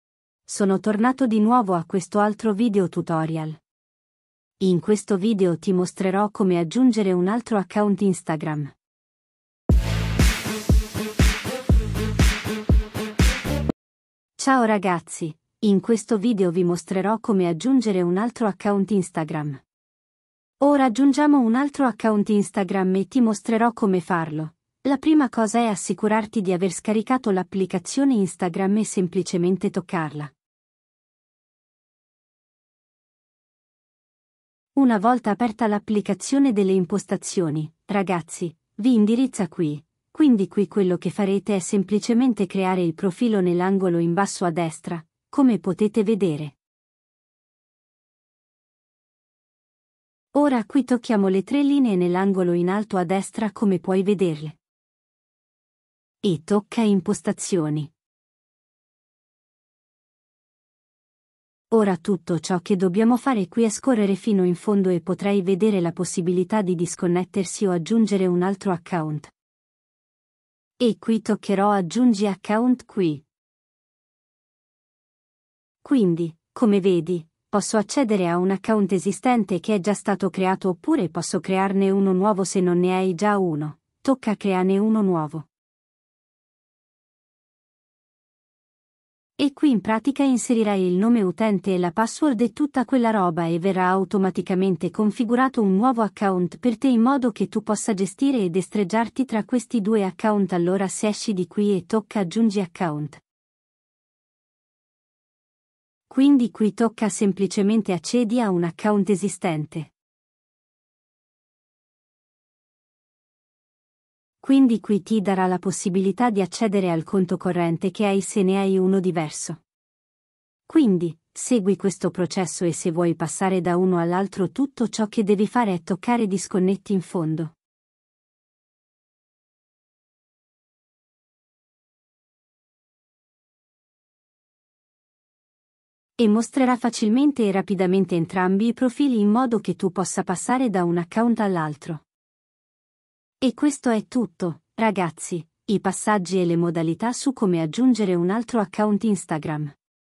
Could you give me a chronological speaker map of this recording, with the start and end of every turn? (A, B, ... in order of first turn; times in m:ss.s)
0:00.5-0:03.6 A
0:04.6-0:08.7 A
0:14.4-0:19.6 A
0:20.6-0:30.3 A
0:34.8-0:46.6 A
0:50.3-0:54.6 A
0:56.2-0:57.9 A
1:01.7-1:09.3 A
1:10.8-1:13.2 A
1:15.8-1:25.5 A
1:29.4-1:43.2 A
1:46.1-1:49.9 A
1:54.4-1:59.6 A
2:00.7-2:07.6 A
2:16.2-2:22.0 A
2:23.4-2:29.7 A